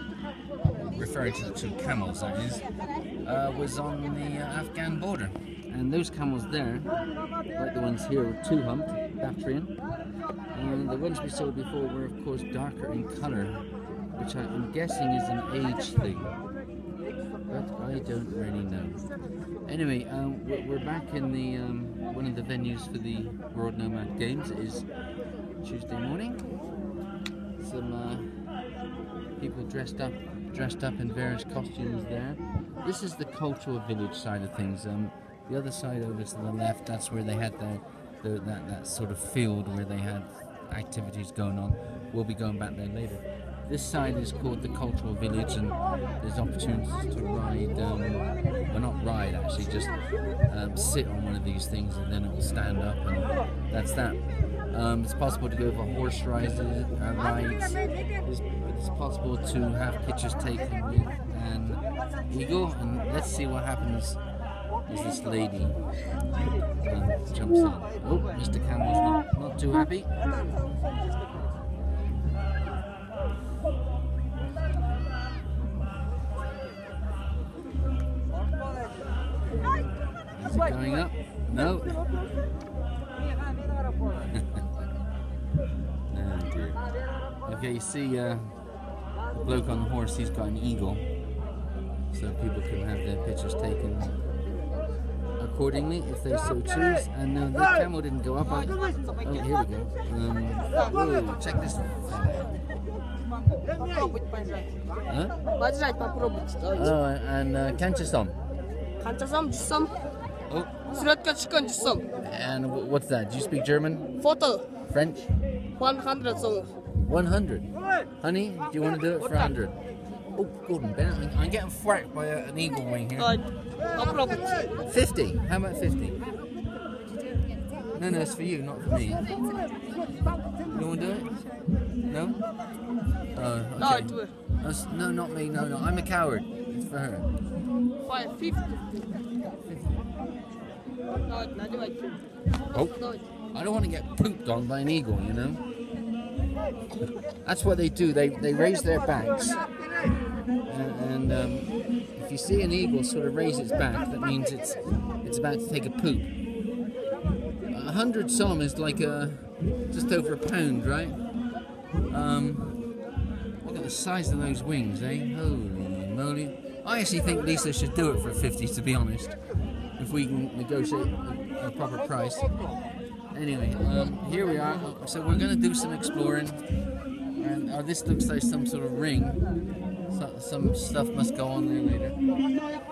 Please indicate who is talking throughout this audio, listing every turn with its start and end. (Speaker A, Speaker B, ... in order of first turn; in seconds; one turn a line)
Speaker A: 0.8-2.6
Speaker A: 3.2-6.9
Speaker A: 7.5-9.7
Speaker A: 10.5-13.6
Speaker A: 14.1-16.3
Speaker A: 17.5-19.0
Speaker A: 19.6-24.9
Speaker A: 25.6-26.4
Speaker A: 27.6-28.4
Speaker A: 29.4-64.2
Speaker A: 64.9-65.8
Speaker A: 66.8-70.1
Speaker A: 80.3-82.0
Speaker A: 86.1-86.8
Speaker A: 87.5-88.5
Speaker A: 89.3-91.0
Speaker A: 92.1-94.1
Speaker A: 95.4-102.6
Speaker A: 105.1-105.3
Speaker B: 105.5-106.9
Speaker A: 106.7-108.3
Speaker B: 109.0-110.0
Speaker A: 110.5-110.7
Speaker B: 110.9-112.1
Speaker A: 112.2-114.1
Speaker B: 114.2-114.7
Speaker A: 114.9-115.2
Speaker B: 115.8-116.8
Speaker A: 117.0-117.7
Speaker A: 118.2-119.8
Speaker A: 120.3-123.3
Speaker B: 123.2-124.7
Speaker A: 124.8-126.2
Speaker A: 127.9-129.2
Speaker A: 130.7-131.3
Speaker A: 132.1-132.4
Speaker A: 133.3-137.3
Speaker B: 133.8-134.3
Speaker B: 138.0-138.8
Speaker B: 141.2-142.1
Speaker B: 142.7-143.2
Speaker A: 143.5-145.6
Speaker A: 147.4-149.7
Speaker A: 150.6-156.3
Speaker A: 157.7-161.2
Speaker A: 162.1-162.8
Speaker A: 163.6-169.3
Speaker A: 169.9-172.5
Speaker A: 173.3-176.6
Speaker A: 177.3-179.4
Speaker A: 180.1-182.2